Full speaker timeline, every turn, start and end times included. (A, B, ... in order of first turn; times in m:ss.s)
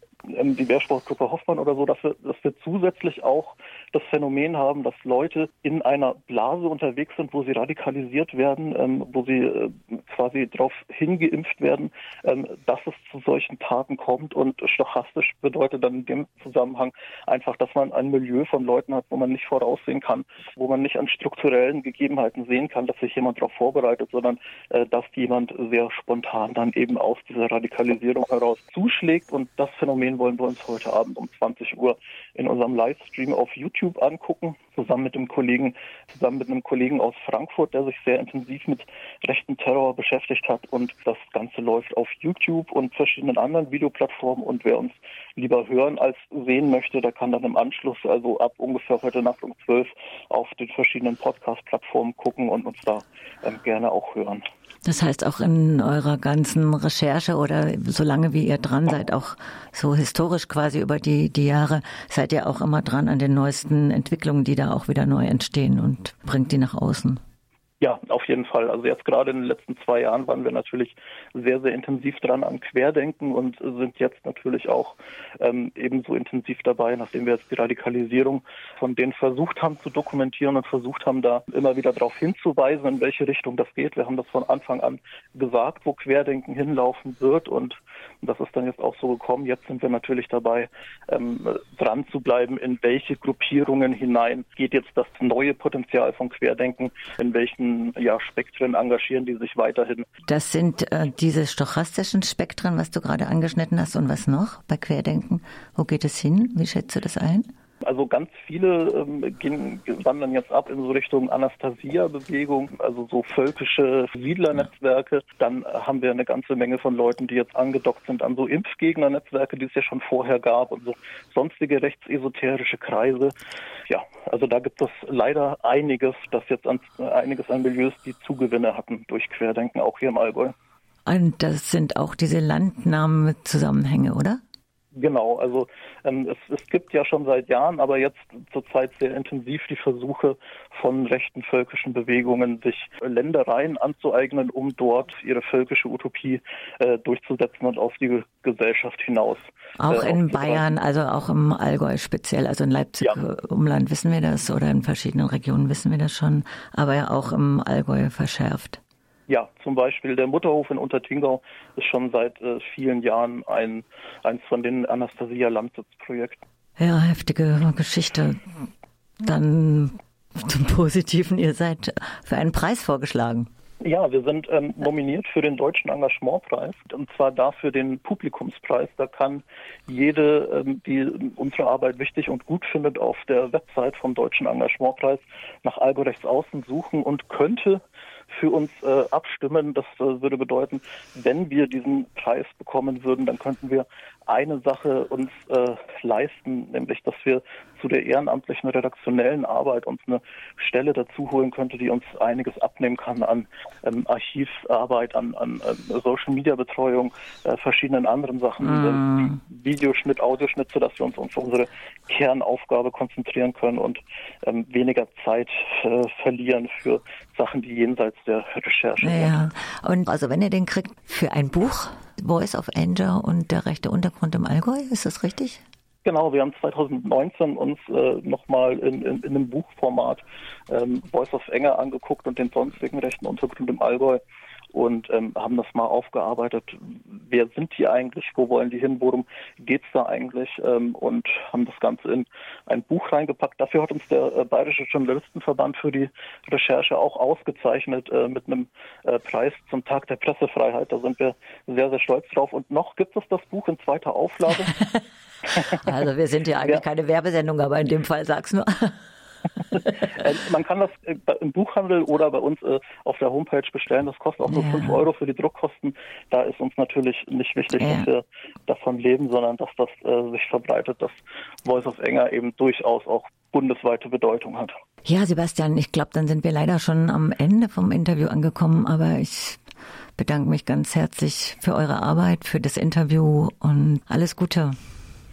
0:00.2-0:54.4 A
0:54.8-1:07.2 B
1:07.8-1:40.0 A
1:40.3-1:47.5 B
1:47.8-2:03.3 A
2:03.9-2:10.5 A
2:11.0-2:14.4 B
2:15.0-2:30.6 A
2:29.8-2:38.8 B
2:39.3-2:46.4 A
2:46.8-2:48.6 B
2:49.2-2:53.5 B
2:53.8-3:39.4 A
3:28.6-3:29.4 B
3:39.0-3:45.6 B
3:46.0-3:54.2 A
3:54.7-4:14.7 A
4:15.5-4:19.0 B
4:19.7-4:20.1 B
4:20.1-4:34.7 A
4:24.5-4:25.0 B
4:27.8-4:28.1 B
4:35.0-4:39.6 B
4:40.2-4:44.8 B